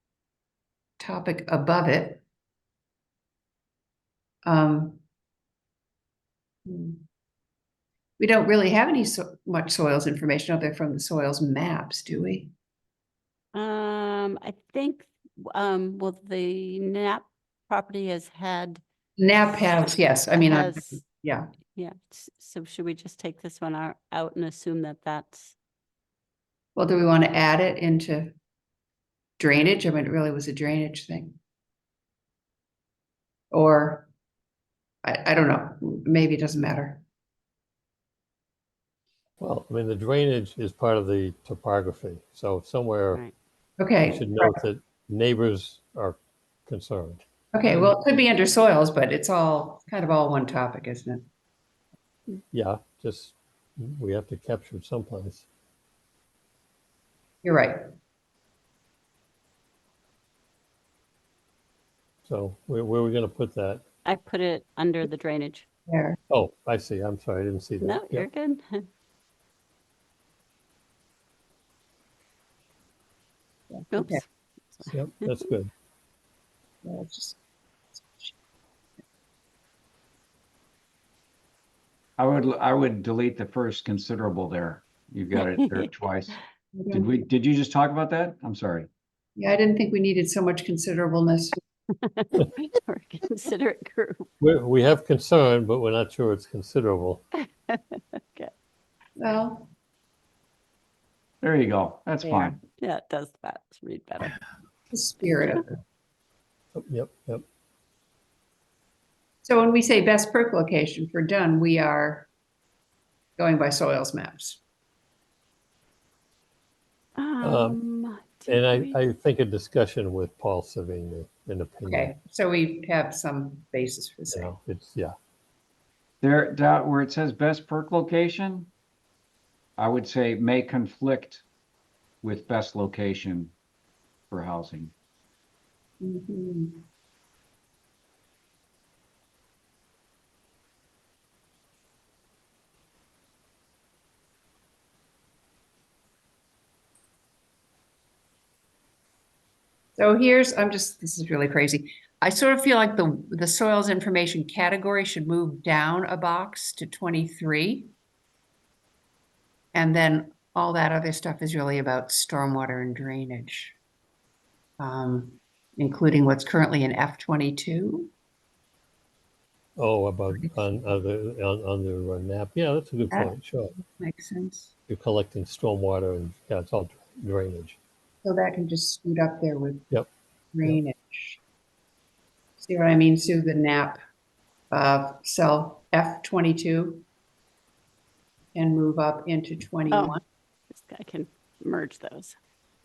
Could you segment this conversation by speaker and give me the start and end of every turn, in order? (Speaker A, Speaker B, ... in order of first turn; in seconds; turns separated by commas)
Speaker A: 1.0-2.2, Speaker A: 4.4-5.0, Speaker A: 6.7-7.0, Speaker A: 8.2-12.5, Speaker B: 13.5-18.8, Speaker A: 19.2-21.5, Speaker B: 20.4-21.1, Speaker B: 21.7-25.5, Speaker A: 26.8-28.3, Speaker A: 29.4-31.4, Speaker A: 33.5-34.1, Speaker A: 35.0-37.0, Speaker C: 39.4-43.2, Speaker A: 43.8-44.6, Speaker C: 44.0-48.0, Speaker A: 47.5-51.2, Speaker C: 52.5-55.5, Speaker A: 57.4-57.9, Speaker C: 62.2-63.8, Speaker B: 64.0-65.7, Speaker A: 65.9-66.2, Speaker C: 66.3-68.3, Speaker B: 67.8-68.9, Speaker A: 73.7-74.2, Speaker B: 73.9-74.9, Speaker C: 74.9-75.7, Speaker A: 76.8-77.4, Speaker A: 77.9-78.3, Speaker D: 82.2-86.4, Speaker B: 85.3-85.9, Speaker A: 86.7-87.3, Speaker D: 86.9-88.9, Speaker A: 89.4-91.6, Speaker B: 92.0-94.3, Speaker C: 94.4-97.2, Speaker B: 97.4-98.5, Speaker A: 99.2-99.7, Speaker D: 101.4-102.6, Speaker A: 102.2-102.6, Speaker B: 102.8-104.4, Speaker A: 104.9-105.8, Speaker B: 105.2-105.5, Speaker C: 106.7-107.4, Speaker A: 109.4-112.3, Speaker A: 113.4-114.6, Speaker B: 117.2-119.0, Speaker C: 117.4-117.8, Speaker C: 118.5-122.1, Speaker A: 121.8-124.5, Speaker C: 124.3-125.1, Speaker D: 126.2-128.7, Speaker D: 129.8-131.4, Speaker D: 132.2-133.5, Speaker D: 134.3-134.9, Speaker A: 136.0-136.8, Speaker A: 150.0-157.9, Speaker A: 159.7-163.8, Speaker A: 164.8-168.1, Speaker C: 169.8-173.7, Speaker A: 170.3-170.8, Speaker A: 173.1-174.7, Speaker C: 174.9-177.8, Speaker A: 178.2-179.8, Speaker A: 180.5-181.4, Speaker A: 182.6-184.0, Speaker A: 184.7-187.0, Speaker A: 188.5-190.2, Speaker B: 189.9-192.3